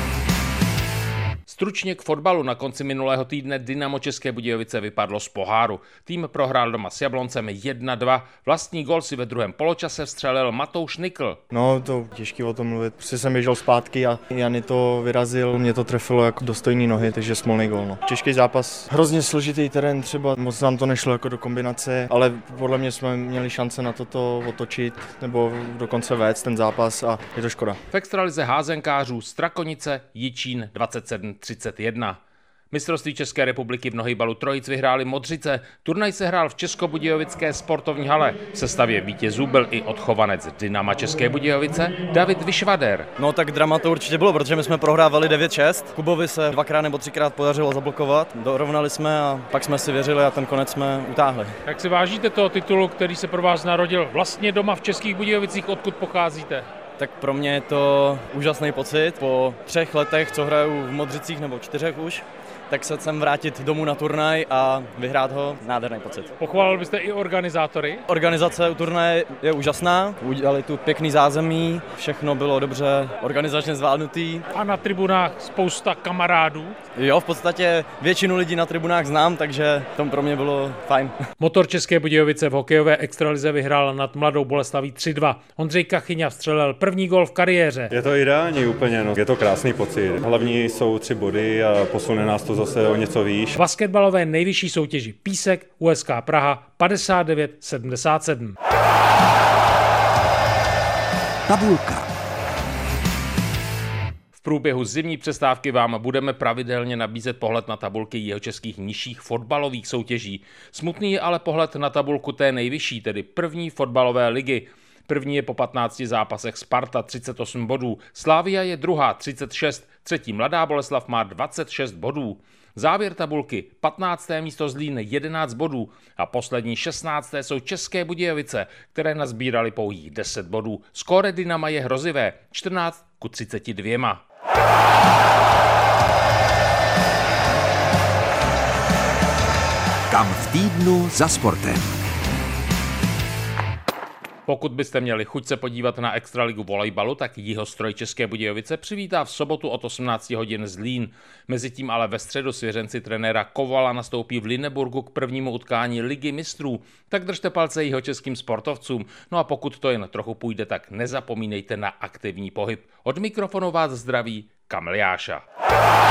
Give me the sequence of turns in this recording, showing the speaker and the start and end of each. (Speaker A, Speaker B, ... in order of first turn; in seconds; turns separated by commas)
Speaker A: 1.5-11.4, Speaker B: 11.5-27.8, Speaker A: 27.9-32.2, Speaker A: 32.7-43.1, Speaker C: 43.2-51.5, Speaker D: 51.7-56.5, Speaker C: 57.0-66.4, Speaker D: 66.5-67.9, Speaker C: 68.1-74.4, Speaker D: 74.6-76.6, Speaker C: 77.0-81.2, Speaker D: 81.4-87.9, Speaker E: 87.9-93.6, Speaker D: 93.6-98.5, Speaker A: 95.2-95.8, Speaker F: 101.5-102.1, Speaker A: 104.3-134.2, Speaker F: 140.1-142.0, Speaker A: 144.5-165.4